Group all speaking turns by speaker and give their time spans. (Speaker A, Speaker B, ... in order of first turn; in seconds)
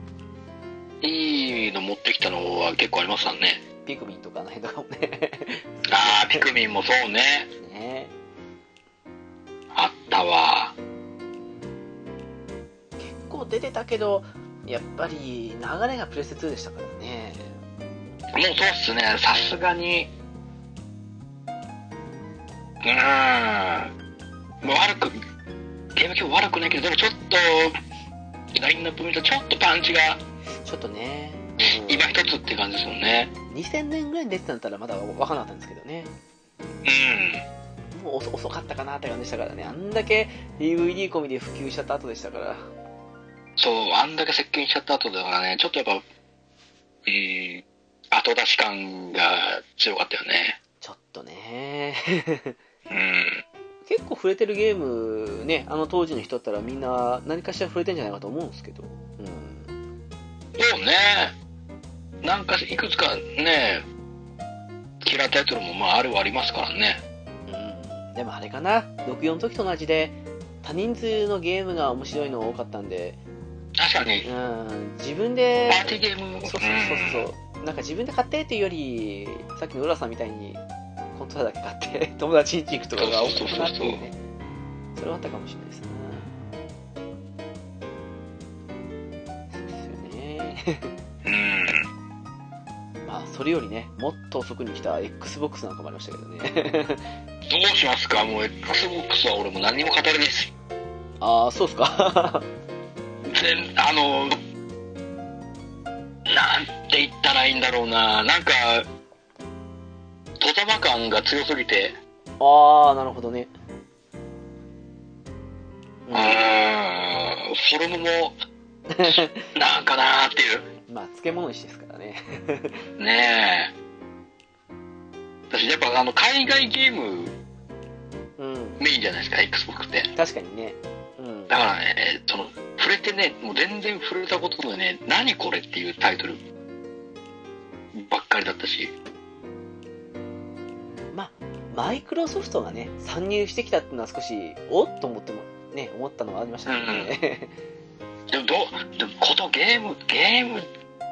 Speaker A: 1.0-3.6, 5.9-7.5, 9.7-10.7, 18.3-20.1, 22.8-23.9, 24.6-25.2, 25.9-27.8, 28.5-30.2, 31.6-33.3, 36.9-37.4, 43.6-46.0, 47.1-50.6, 52.9-53.4, 60.6-61.4, 62.2-63.9, 65.0-67.0, 73.8-74.3, 75.7-77.3, 83.0-84.0, 91.2-91.9, 97.5-100.5, 103.3-104.4, 106.3-108.9, 110.4-112.0, 116.1-118.4, 119.0-120.7, 123.0-123.7, 125.5-127.3, 128.8-130.1, 131.5-136.4, 137.9-138.9, 146.7-147.1, 148.3-150.7
Speaker B: 3.9-6.5, 7.6-8.1, 13.0-17.6, 30.6-32.3, 33.5-36.1, 37.9-42.7, 50.8-52.5, 53.9-59.7, 67.5-73.2, 74.2-80.6, 81.1-84.2, 85.0-86.3, 89.5-90.9, 93.0-97.1, 101.2-102.5, 112.4-113.5, 116.1-116.4, 118.9-119.5, 120.9-122.8, 128.4-128.8, 130.2-131.6, 141.1-147.5